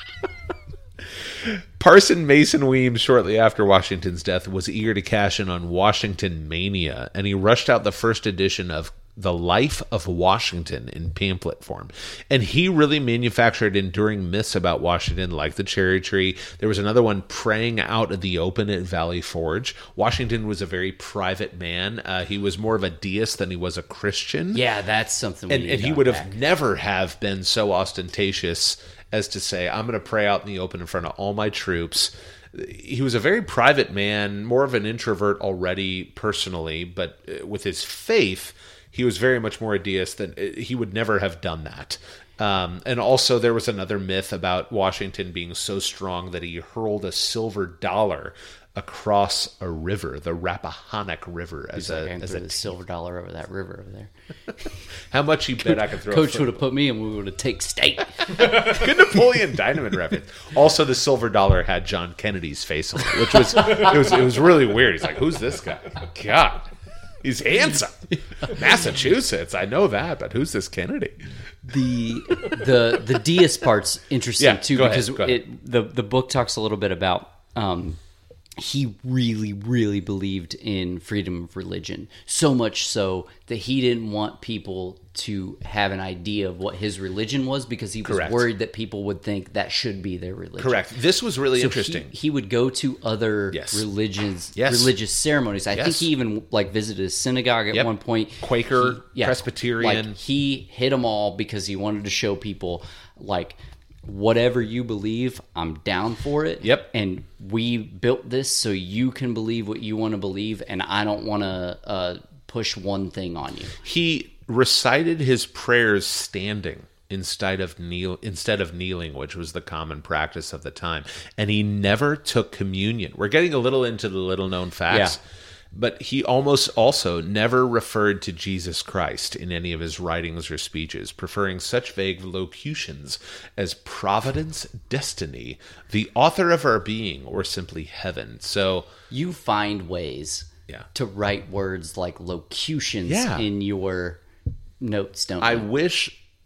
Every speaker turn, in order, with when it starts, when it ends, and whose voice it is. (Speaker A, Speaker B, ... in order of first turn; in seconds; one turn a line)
Speaker A: 1.3-24.6
Speaker B: 24.5-26.4
Speaker A: 25.5-52.7
Speaker B: 51.8-54.1
Speaker A: 55.1-56.6
Speaker B: 55.7-58.8
Speaker A: 58.3-66.7
Speaker A: 67.2-71.2
Speaker B: 71.7-78.0
Speaker A: 74.4-75.4
Speaker B: 78.6-90.8
Speaker A: 88.0-88.5
Speaker A: 90.6-92.1
Speaker B: 91.5-113.8
Speaker A: 93.5-93.8
Speaker A: 94.5-94.9
Speaker A: 95.7-96.1
Speaker A: 98.4-100.2
Speaker A: 106.6-106.9
Speaker A: 113.8-125.2
Speaker B: 124.9-125.2
Speaker A: 125.7-138.9
Speaker B: 139.1-144.2
Speaker A: 143.1-143.4
Speaker B: 144.8-145.7
Speaker A: 145.4-146.2